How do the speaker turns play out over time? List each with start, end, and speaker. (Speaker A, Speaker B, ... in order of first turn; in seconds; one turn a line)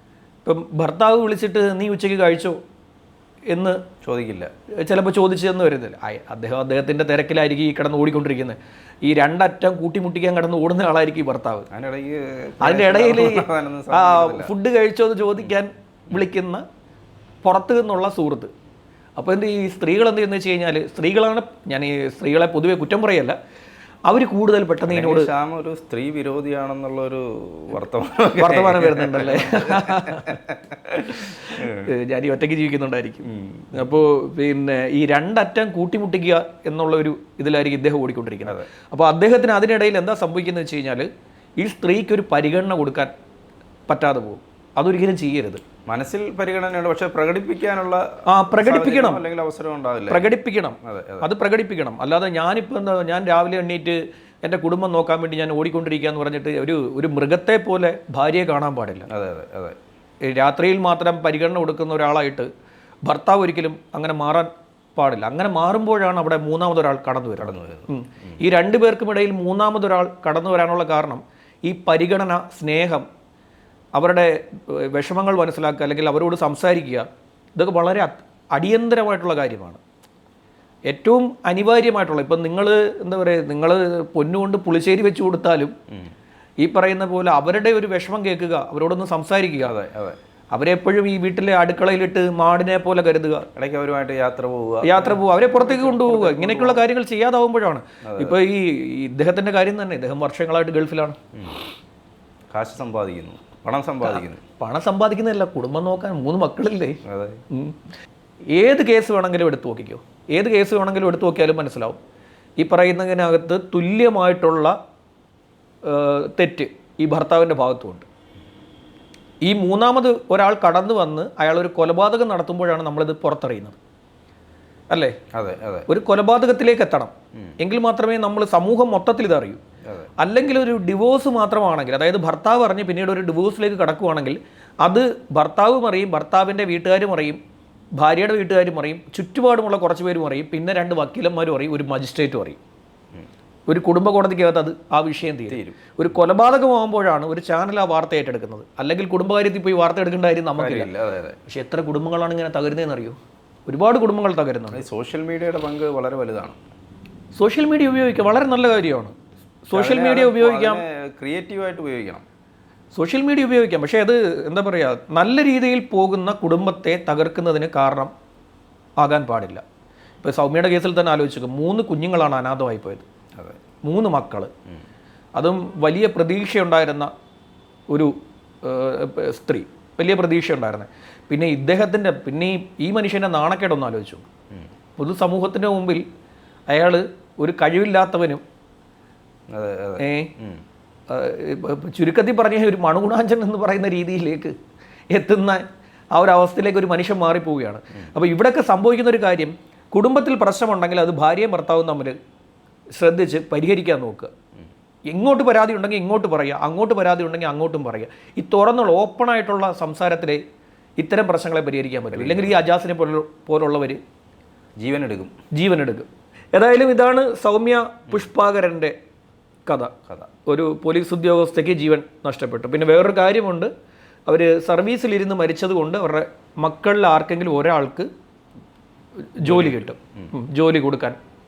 Speaker A: 0.5-2.6
Speaker A: 3.5-3.8
Speaker B: 4.0-4.5
Speaker A: 4.8-11.7
Speaker B: 11.7-14.5
Speaker A: 12.6-16.6
Speaker A: 17.4-18.5
Speaker A: 19.2-23.4
Speaker A: 24.1-25.3
Speaker B: 24.9-31.1
Speaker A: 28.4-30.4
Speaker A: 30.9-41.1
Speaker B: 31.6-31.9
Speaker B: 33.3-33.8
Speaker A: 41.6-43.1
Speaker A: 43.9-45.6
Speaker B: 45.9-50.3
Speaker A: 48.3-49.2
Speaker A: 50.1-59.1
Speaker B: 50.8-51.3
Speaker B: 59.1-59.8
Speaker A: 60.2-62.5
Speaker A: 63.0-73.1
Speaker B: 67.4-68.4
Speaker A: 74.0-79.8
Speaker A: 80.9-85.7
Speaker A: 86.6-89.8
Speaker B: 89.6-90.2
Speaker A: 90.5-93.5
Speaker B: 93.5-96.8
Speaker A: 94.8-101.2
Speaker B: 98.0-98.4
Speaker B: 101.3-101.6
Speaker B: 102.5-104.4
Speaker A: 104.0-107.0
Speaker B: 107.0-107.4
Speaker A: 107.5-107.8
Speaker A: 108.5-112.0
Speaker A: 112.6-114.7
Speaker A: 115.8-118.1
Speaker A: 119.4-123.8
Speaker A: 124.9-125.2
Speaker B: 125.3-125.9
Speaker A: 125.9-129.6
Speaker A: 130.2-137.4
Speaker A: 138.0-142.6
Speaker A: 143.7-150.9
Speaker B: 145.5-145.8
Speaker B: 150.6-151.4
Speaker A: 151.5-154.8
Speaker B: 154.7-156.6
Speaker A: 157.4-159.1
Speaker A: 159.7-160.8
Speaker B: 159.7-162.2
Speaker A: 162.9-168.1
Speaker A: 169.0-169.6
Speaker A: 170.2-173.1
Speaker A: 173.8-174.5
Speaker A: 175.4-177.1
Speaker A: 178.6-184.2
Speaker A: 185.0-186.0
Speaker A: 186.7-188.4
Speaker B: 189.5-190.6
Speaker A: 190.0-190.3
Speaker A: 191.1-194.5
Speaker A: 195.1-202.2
Speaker A: 203.0-204.3
Speaker A: 205.1-210.4
Speaker A: 211.0-214.0
Speaker B: 212.1-212.6
Speaker B: 214.8-215.3
Speaker A: 215.5-218.9
Speaker A: 219.7-219.9
Speaker A: 220.5-223.7
Speaker A: 224.3-228.1
Speaker A: 229.4-231.2
Speaker B: 229.5-230.3